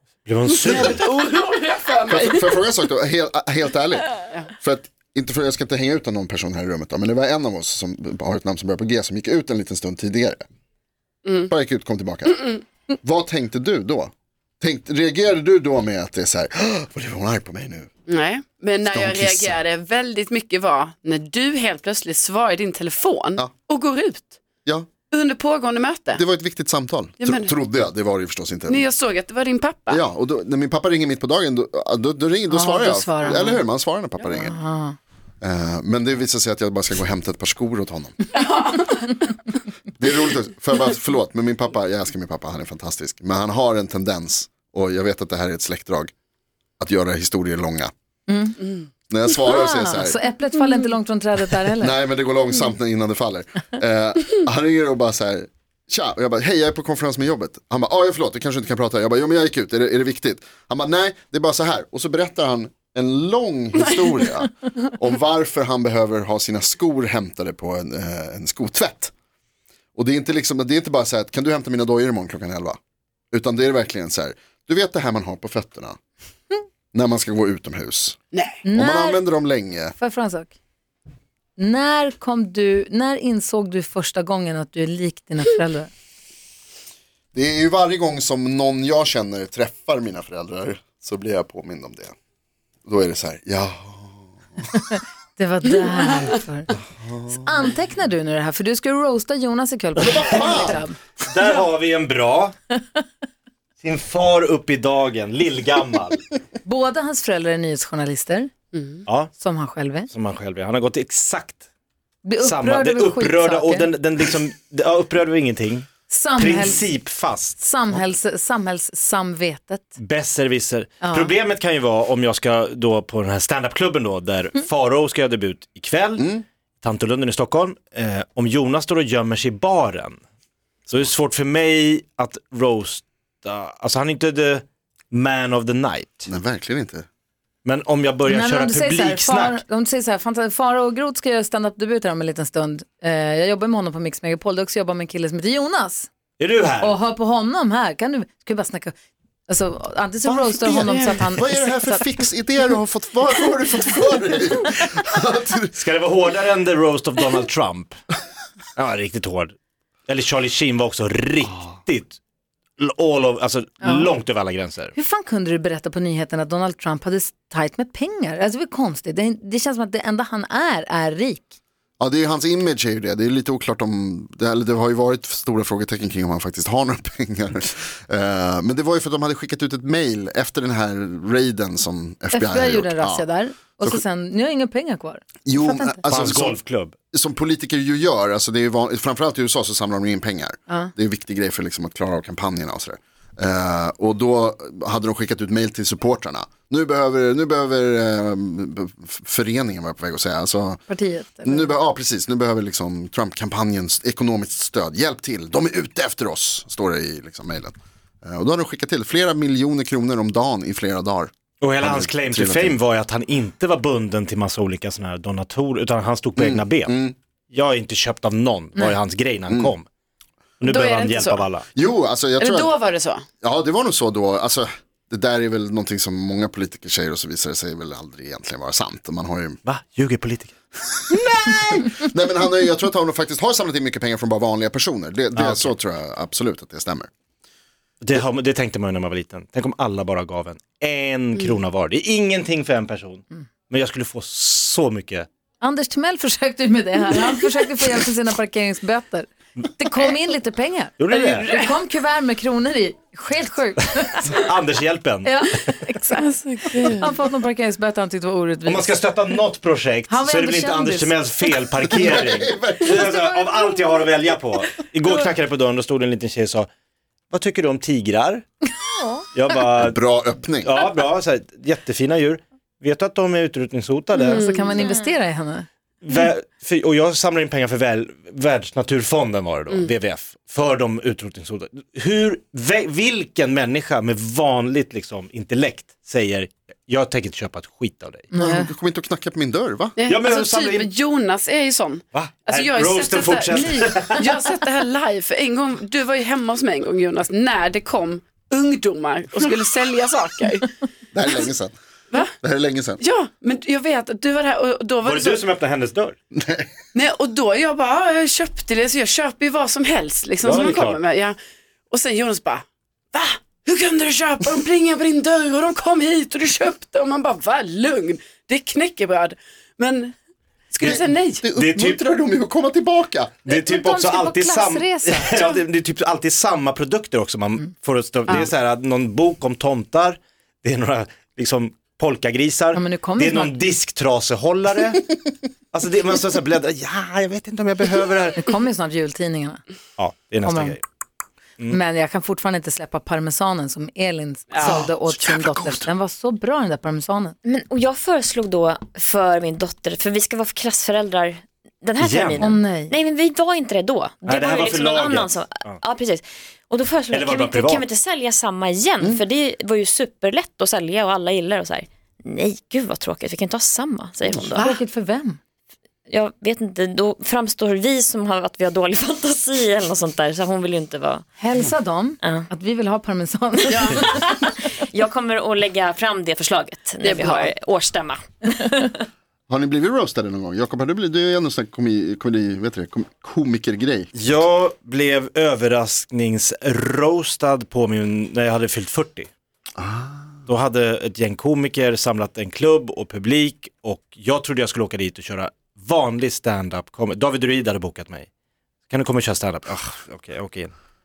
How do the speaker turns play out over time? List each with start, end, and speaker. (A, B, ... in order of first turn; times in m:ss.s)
0:00.2-0:01.0 A
0:00.5-0:02.6 B
0:02.1-0:10.5 C
0:11.2-0:11.5 B
0:11.5-0:12.5 C
0:13.0-0:17.9 C
0:18.1-0:24.4 B
0:18.8-0:19.6 C
0:25.1-0:26.2 B
0:26.2-0:28.9 C
0:27.2-0:27.5 B
0:28.7-0:30.0 B
0:29.9-0:34.6 C
0:32.5-0:33.6 D
0:34.3-0:35.0 D
0:35.4-0:38.2 C
0:38.3-0:39.2 B
0:40.0-0:46.1 C
0:46.8-0:47.9 C
0:48.3-0:48.6 D
0:49.1-0:50.2 C
0:49.4-0:52.0 D
0:51.8-1:09.1 C
1:03.8-1:04.2 B
1:09.9-1:12.8 C
1:13.3-1:16.0 C
1:16.9-1:18.2 C
1:18.6-1:19.2 D
1:18.7-1:19.9 C
1:20.0-1:20.6 D
1:21.6-1:25.9 D
1:27.3-1:32.1 C
1:32.8-1:34.7 C
1:35.4-1:36.7 D
1:37.0-1:37.5 C
1:37.3-1:41.0 D
1:40.0-1:40.8 C
1:40.2-1:40.5 A
1:41.3-1:42.5 A
1:43.8-1:46.3 A
1:46.6-1:48.5 D
1:48.7-1:49.0 B
1:49.0-1:49.3 A
1:49.4-1:50.1 D
1:50.1-1:51.6 A
1:52.2-1:53.9 D
1:52.4-1:57.6 A
1:56.1-1:56.9 D
1:57.6-1:59.9 D
2:00.0-2:10.2 A
2:01.0-2:01.3 D
2:06.2-2:06.4 C
2:10.9-2:16.3 A
2:16.3-2:17.0 C
2:17.6-2:19.6 A
2:18.2-2:26.1 D
2:26.4-2:27.0 A
2:26.8-2:28.9 D
2:29.5-2:32.1 D
2:30.2-2:35.7 C
2:30.8-2:31.2 B
2:35.7-2:38.0 A
2:38.8-2:39.5 A
2:40.1-2:42.2 A
2:42.8-2:44.9 A
2:43.8-2:44.1 D
2:44.9-2:51.5 D
2:52.0-3:03.2 C
3:02.3-3:06.4 D
3:05.4-3:06.6 C
3:06.1-3:07.0 A
3:07.1-3:20.8 C
3:20.9-3:21.7 D
3:21.4-3:32.8 C
3:31.6-3:37.0 A
3:36.4-3:37.1 C
3:37.5-3:39.8 A
3:40.6-3:41.6 A
3:40.6-3:41.5 B
3:41.7-3:42.8 C
3:42.4-3:43.2 B
3:43.4-3:49.6 C
3:49.6-3:50.5 A
3:51.0-3:57.1 C
3:55.3-3:55.7 A
3:58.0-4:05.3 A
4:05.6-4:14.5 D
4:11.0-4:11.5 A
4:14.3-4:15.4 A
4:15.2-4:19.0 D
4:16.1-4:17.1 B
4:18.6-4:26.7 A
4:20.1-4:21.2 D
4:21.9-4:23.1 C
4:22.9-4:24.0 D
4:27.3-4:28.5 A
4:29.0-4:29.2 D
4:29.3-4:30.0 A
4:29.8-4:30.8 C
4:30.6-4:34.4 A
4:34.2-4:35.7 D
4:34.2-4:34.8 B
4:36.0-4:48.3 A
4:48.3-4:48.7 D
4:48.3-4:50.0 C
4:50.0-5:00.7 B
4:50.1-4:50.9 A
4:52.1-4:54.3 A
4:53.5-4:54.2 D
5:01.1-5:01.7 C
5:02.4-5:03.0 C
5:03.0-5:05.4 B
5:05.0-5:06.2 A
5:06.3-5:06.7 C
5:06.9-5:11.4 B
5:10.4-5:11.0 A
5:11.9-5:20.1 B
5:20.7-5:21.4 B
5:20.8-5:23.4 C
5:21.5-5:22.0 A
5:23.4-5:35.2 A
5:23.5-5:25.3 D
5:25.2-5:25.6 B
5:32.7-5:33.6 D
5:35.7-5:38.5 A
5:38.4-5:39.6 D
5:40.0-5:40.8 A
5:40.4-5:40.8 D
5:41.6-5:47.4 D
5:44.5-5:44.8 B
5:44.6-5:45.8 A
5:47.4-6:04.5 E
5:52.0-5:52.6 A
5:52.4-5:52.9 D
5:54.2-5:55.8 A
5:57.1-5:57.9 A
6:04.5-6:04.8 B
6:04.6-6:05.4 D
6:06.1-6:11.2 E
6:11.4-6:14.3 D
6:13.7-6:14.0 B
6:14.9-6:18.9 E
6:17.0-6:17.5 B
6:19.5-6:24.1 C
6:24.1-6:29.3 A
6:29.8-6:30.4 C
6:30.5-6:38.3 A
6:38.9-6:40.7 A